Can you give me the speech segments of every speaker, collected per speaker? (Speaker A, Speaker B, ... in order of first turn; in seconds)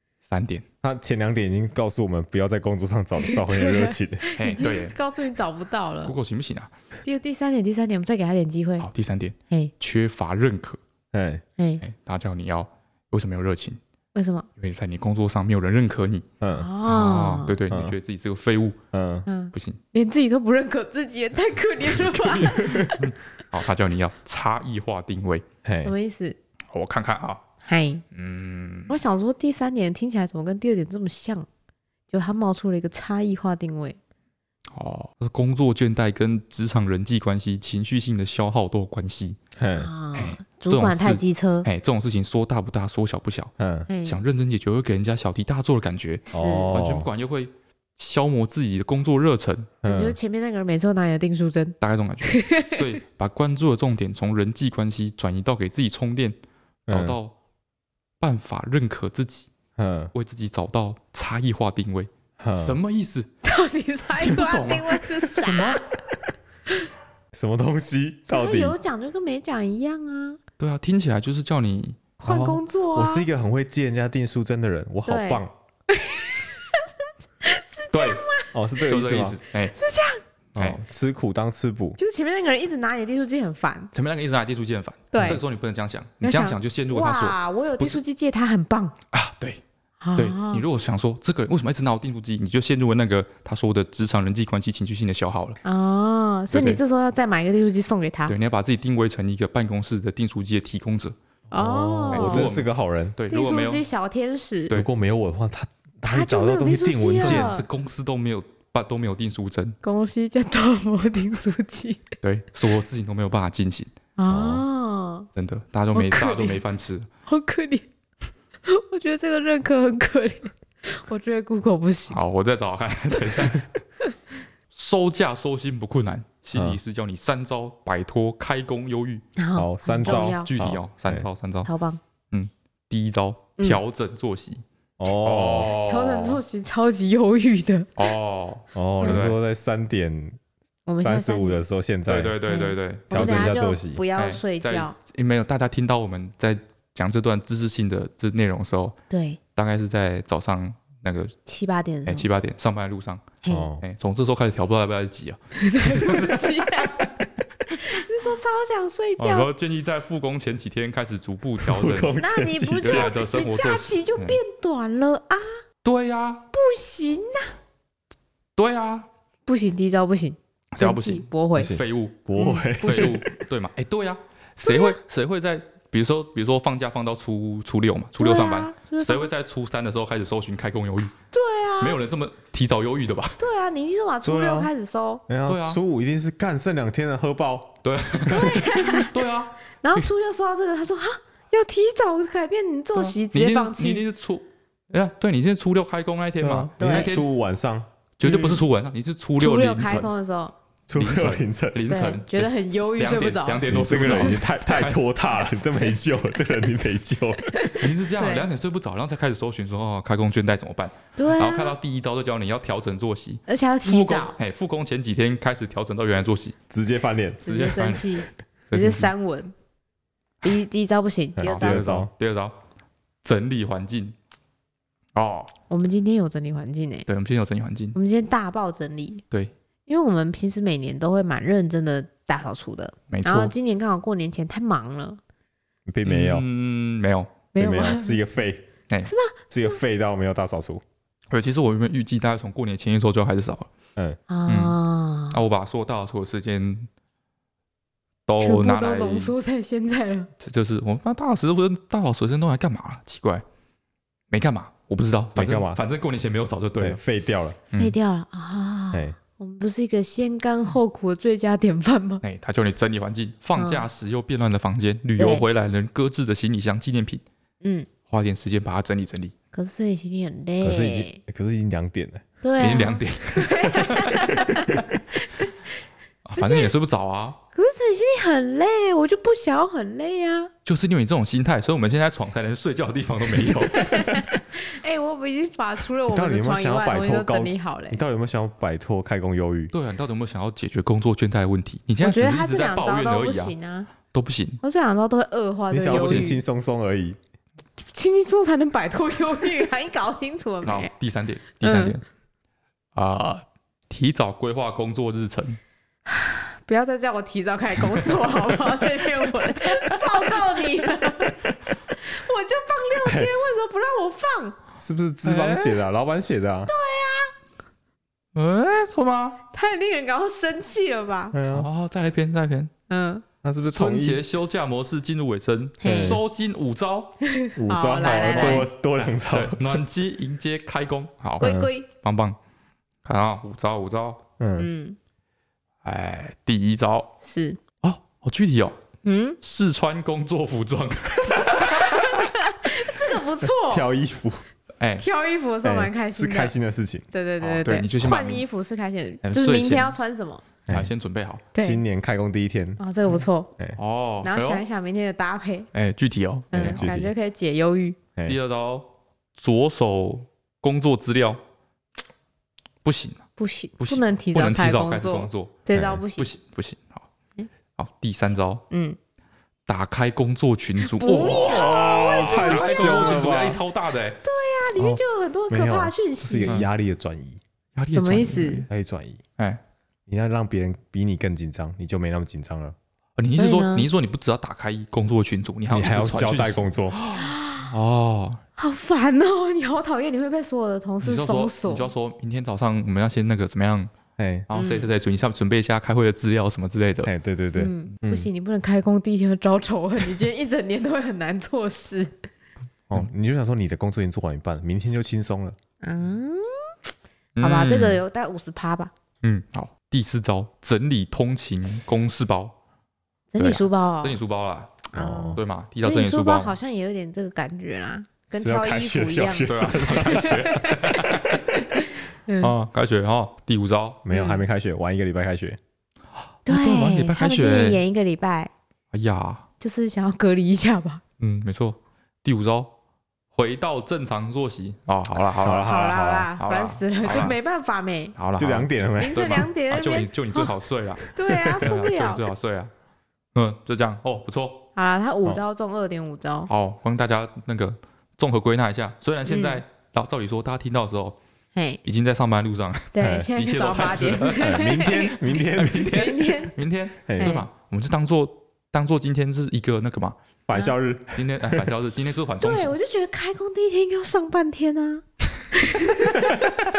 Speaker A: 0.3-0.6, 4.3-4.9, 6.0-6.7, 8.8-10.8, 11.8-13.8, 14.6-16.2, 16.8-18.8, 19.5-19.8, 21.9-25.4, 26.7-27.4, 28.1-28.9, 34.7-39.4, 40.1-43.5, 44.0-49.7, 51.8-56.4, 56.9-57.3, 58.2-59.5, 60.1-63.3, 64.1-65.8, 70.6-72.6, 77.9-79.8, 83.9-88.0, 89.1-89.6, 90.2-95.6, 96.5-96.8, 98.3-101.1, 102.1-103.8, 107.1-109.8, 112.2-113.9, 115.3-117.1, 122.1-123.7, 124.7-129.2, 130.0-131.7, 132.3-136.4, 137.9-139.4, 142.1-143.5, 144.2-148.9, 149.6-151.3, 152.1-157.1, 159.2-162.1, 162.8-164.4, 165.8-166.5, 168.6-169.1, 170.7-181.1, 181.8-183.4, 185.5-185.8, 187.8-190.0, 192.9-197.2, 198.2-200.1, 200.9-205.0, 207.7-216.6, 217.4-219.1, 221.4-222.6, 223.2-224.1, 225.1-225.5, 227.1-227.9, 233.1-233.5, 236.0-237.3, 241.3-243.7, 244.5-244.8, 245.3-246.9, 248.2-249.3, 250.4-253.4, 254.3-257.0, 262.2-267.2, 268.1-269.3, 272.6-274.8, 276.2-277.4, 280.6-284.3, 289.7-293.5, 294.1-294.6, 295.9-296.3, 300.6-302.0, 302.9-305.6, 315.2-315.8, 318.3-319.4, 321.5-322.7, 323.6-327.1, 328.0-328.6, 329.3-332.4, 333.0-334.2, 335.8-337.1, 337.8-338.8, 339.4-342.3, 344.8-345.0, 347.4-348.4, 349.2-349.9, 350.7-351.4, 353.8-354.6, 355.7-356.8, 358.2-361.4, 362.8-363.2, 363.8-365.6, 366.1-367.1, 367.8-368.6, 369.7-374.2, 377.8-378.7, 383.2-388.4, 391.0-393.9, 394.5-397.1, 407.4-408.0, 409.2-412.5, 413.4-416.6, 419.4-421.5, 422.4-424.0, 426.4-427.8, 428.9-429.4, 431.2-432.7, 433.3-435.7, 436.4-437.4, 438.1-442.7, 443.3-444.7, 446.5-451.2, 451.8-460.2, 461.1-462.7
Speaker B: 0.8-4.2, 11.1-11.4, 16.4-16.7, 17.7-17.9, 18.9-19.3, 25.6-25.9, 39.6-39.9, 43.6-43.9, 46.3-47.1, 49.8-50.2, 56.9-57.2, 59.8-60.1, 62.4-62.8, 67.3-68.8, 72.9-75.5, 78.5-79.4, 80.5-82.0, 101.5-103.2, 104.7-107.6, 114.3-114.6, 126.5-126.8, 129.6-131.2, 135.0-135.7, 138.7-140.4, 141.0-142.3, 143.1-144.0, 153.5-153.8, 161.6-163.1, 171.6-173.3, 184.2-184.7, 185.3-187.7, 188.2-188.5, 196.4-197.9, 200.9-201.8, 203.7-207.5, 216.7-217.4, 221.4-222.1, 235.9-236.4, 237.6-238.7, 239.5-240.8, 255.3-255.8, 256.8-257.6, 270.6-272.2, 286.1-289.7, 295.7-297.2, 313.0-313.3, 314.8-316.7, 321.3-321.7, 323.4-324.2, 325.8-326.2, 327.6-329.8, 331.4-331.7, 334.4-334.7, 343.4-344.4, 345.6-347.0, 351.6-352.8, 356.6-357.1, 365.7-366.0, 371.4-373.6, 374.8-377.4, 378.7-379.2, 380.1-382.8, 385.7-386.9, 394.2-394.5, 397.0-398.3, 402.9-405.6, 414.9-415.4, 418.3-420.5, 424.0-425.6, 435.4-436.3, 438.4-439.4, 453.0-453.3, 454.4-455.9, 457.1-457.4, 460.5-461.7
Speaker C: 3.2-6.1, 7.0-8.9, 14.1-14.4, 16.6-17.5, 19.3-23.0, 25.8-26.4, 27.6-28.0, 28.9-31.4, 32.1-34.0, 39.7-41.7, 43.9-44.2, 46.3-46.7, 49.8-52.9, 63.4-65.8, 68.3-70.4, 72.2-73.2, 75.0-76.9, 77.4-78.5, 79.7-80.2, 82.0-83.9, 85.1-85.4, 86.2-88.9, 90.0-90.6, 95.6-98.3, 101.5-102.5, 103.3-104.7, 106.0-107.6, 109.8-112.1, 114.2-115.3, 115.9-116.6, 117.3-117.8, 118.6-122.2, 129.4-130.5, 131.6-132.0, 135.8-137.9, 139.0-139.3, 140.9-141.6, 142.4-144.9, 149.1-149.4, 151.4-152.2, 153.4-153.7, 155.6-157.1, 157.8-159.5, 162.2-165.5, 166.5-167.5, 169.4-171.7, 172.4-173.2, 174.6-175.0, 178.2-179.3, 181.3-182.0, 183.4-185.2, 188.3-189.1, 189.8-194.0, 196.8-197.1, 198.2-198.6, 199.4-200.5, 201.9-204.3, 207.5-208.5, 211.2-211.8, 213.5-214.3, 217.4-219.5, 220.4-221.8, 225.7-227.1, 227.9-229.2, 229.9-235.2, 237.5-238.2, 239.0-239.8, 244.3-245.4, 248.4-250.3, 257.7-262.2, 263.6-263.9, 265.2-265.4, 267.6-267.9, 269.5-271.2, 272.4-275.5, 276.4-276.7, 277.5-280.5, 283.7-288.0, 292.0-293.9, 294.6-296.4, 297.9-300.9, 301.6-302.0, 306.1-314.6, 316.7-317.3, 319.5-321.4, 322.9-323.2, 325.8-326.2, 327.2-328.7, 331.4-331.9, 334.6-335.0, 337.2-337.6, 339.0-339.4, 341.6-343.9, 345.0-346.5, 347.1-350.4, 351.5-351.8, 352.8-353.5, 354.2-355.7, 356.5-358.0, 363.4-366.3, 368.7-369.0, 370.8-373.1, 374.2-376.6, 377.9-378.6, 383.4-383.9, 387.1-387.7, 388.6-391.9, 394.5-394.9, 397.5-402.2, 405.8-406.7, 407.4-408.9, 413.3-414.2, 414.9-422.5, 424.1-424.4, 426.4-428.5, 429.6-431.0, 435.6-438.1, 439.0-440.5, 441.0-442.2, 444.8-446.5, 449.2-449.6, 451.5-451.8, 452.9-456.6, 457.2-457.5, 462.4-466.5